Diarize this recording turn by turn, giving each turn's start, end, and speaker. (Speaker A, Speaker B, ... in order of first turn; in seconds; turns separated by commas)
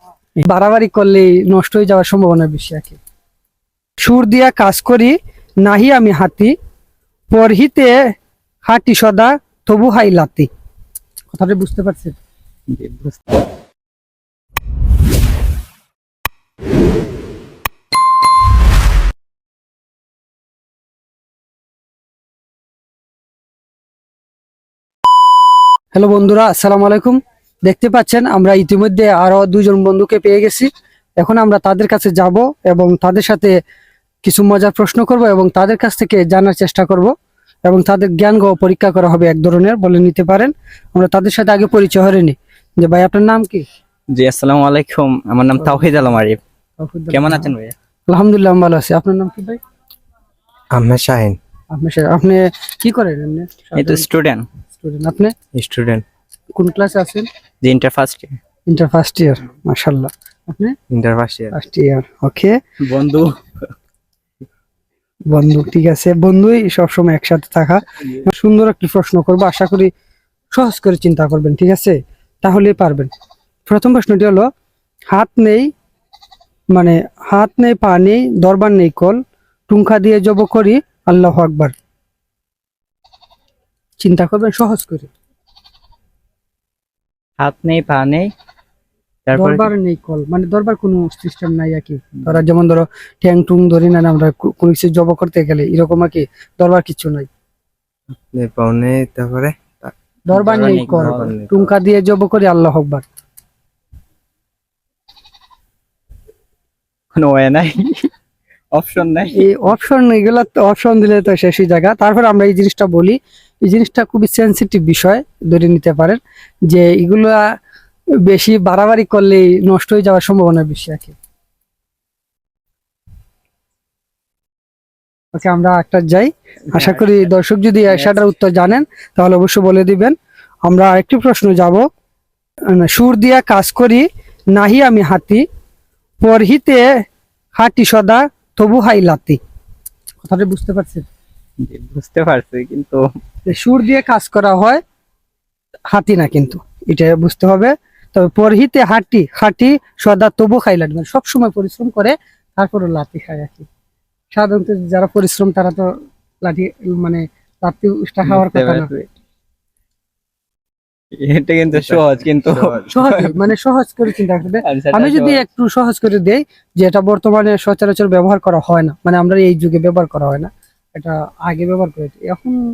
Speaker A: 0.4-3.0, Speaker A: 4.0-6.5, Speaker A: 7.3-7.9, Speaker A: 8.6-10.5, Speaker A: 11.3-12.2, Speaker B: 12.7-13.2, Speaker A: 25.9-33.5, Speaker A: 34.2-37.1, Speaker A: 37.7-43.6, Speaker B: 44.1-46.4, Speaker A: 45.6-46.1, Speaker A: 46.8-47.5, Speaker B: 47.1-47.7, Speaker A: 48.1-49.6, Speaker C: 50.7-51.4, Speaker A: 51.7-54.1, Speaker B: 53.8-54.4, Speaker A: 54.7-55.3, Speaker C: 55.5-56.0, Speaker A: 56.5-57.3, Speaker B: 57.6-58.4, Speaker A: 58.7-60.7, Speaker C: 60.9-61.5, Speaker A: 61.5-62.5, Speaker B: 62.8-63.3, Speaker A: 65.3-69.9, Speaker A: 70.5-73.1, Speaker A: 73.7-74.4, Speaker A: 75.1-75.7, Speaker A: 76.7-81.7, Speaker A: 84.0-85.1, Speaker B: 87.4-88.3, Speaker B: 89.3-89.7, Speaker A: 89.3-97.3, Speaker C: 98.1-101.7, Speaker A: 100.3-103.0, Speaker B: 100.4-101.3, Speaker B: 107.1-108.1, Speaker B: 108.7-109.4, Speaker A: 109.4-116.2, Speaker A: 116.7-117.4, Speaker A: 118.3-121.1, Speaker A: 125.3-130.1, Speaker B: 126.7-127.3, Speaker B: 127.9-128.2, Speaker A: 130.7-131.8, Speaker A: 132.7-135.4, Speaker A: 136.2-136.8, Speaker A: 137.6-139.4, Speaker A: 140.2-141.1, Speaker B: 141.6-143.0, Speaker A: 143.4-144.8, Speaker A: 145.9-153.7, Speaker A: 154.3-155.9, Speaker A: 156.4-158.9, Speaker B: 158.2-159.1, Speaker B: 161.2-163.3, Speaker C: 161.7-162.8, Speaker A: 162.9-172.6, Speaker B: 164.6-165.4